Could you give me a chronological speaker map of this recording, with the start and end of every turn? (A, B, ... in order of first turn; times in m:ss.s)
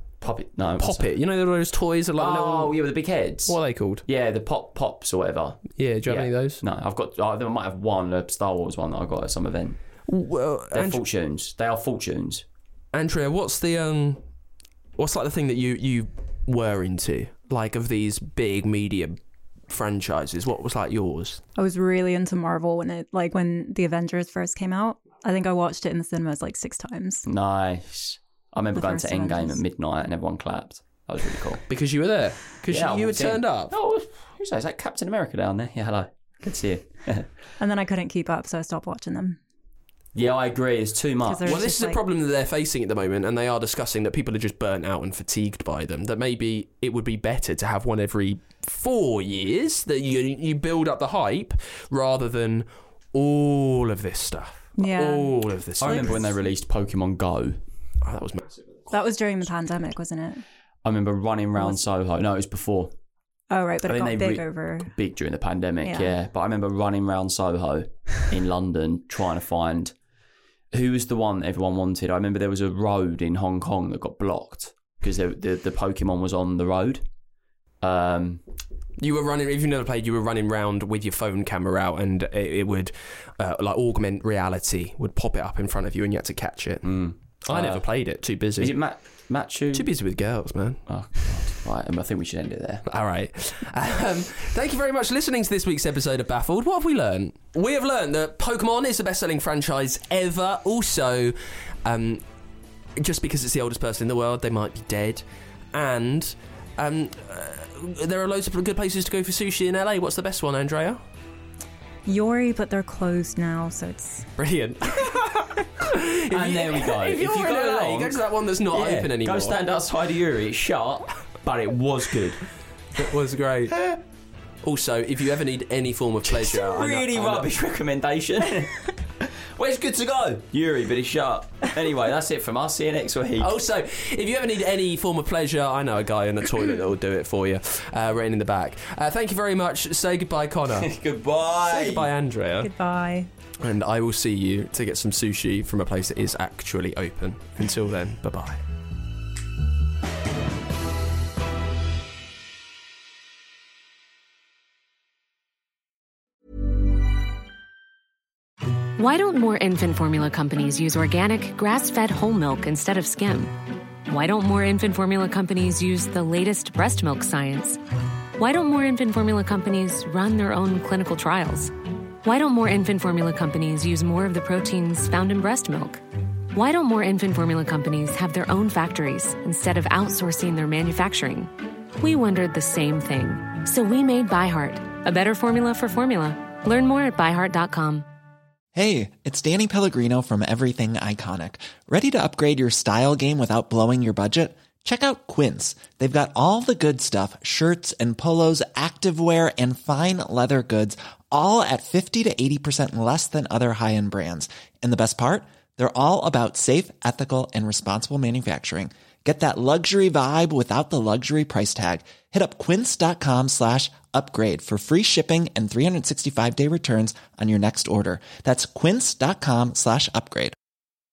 0:00.2-0:01.1 A
0:00.8-0:02.8 B
0:02.2-0:09.8 A
0:03.5-0:04.0 B
0:05.8-0:06.6 B
0:10.1-0:11.0 B
0:10.7-0:12.4 A
0:12.9-0:14.2 B
0:15.0-0:19.2 B
0:19.7-0:21.4 B
0:21.5-0:27.2 C
0:27.2-0:31.6 A
0:28.7-0:29.6 C
0:31.7-0:33.7 B
0:32.7-0:37.3 A
0:37.6-0:39.4 C
0:40.1-0:41.6 A
0:41.2-0:42.0 C
0:41.4-0:56.2 B
0:54.8-0:56.3 C
0:55.8-0:57.6 A
0:58.0-0:58.8 B
0:58.9-1:00.4 C
1:00.8-1:02.9 A
1:03.5-1:04.9 C
1:03.8-1:09.9 A
1:05.8-1:06.2 C
1:10.7-1:17.0 A
1:17.8-1:18.4 A
1:19.0-1:26.9 B
1:26.8-1:27.9 A
1:27.5-1:28.8 B
1:28.6-1:29.9 A
1:29.7-1:30.8 B
1:30.9-1:32.8 A
1:32.8-1:42.2 B
1:43.0-1:51.0 B
1:52.0-1:54.3 C
1:54.4-1:59.6 B
1:56.3-2:02.4 A
2:03.0-2:03.8 B
2:04.6-2:07.5 B
2:06.3-2:13.5 A
2:13.4-2:20.9 B
2:20.8-2:22.1 A
2:21.7-2:22.7 B
2:22.6-2:23.3 C
2:23.6-2:28.6 B
2:39.0-2:47.8 D
2:48.4-2:56.0 D
2:56.5-3:08.0 D
3:08.7-3:40.5 E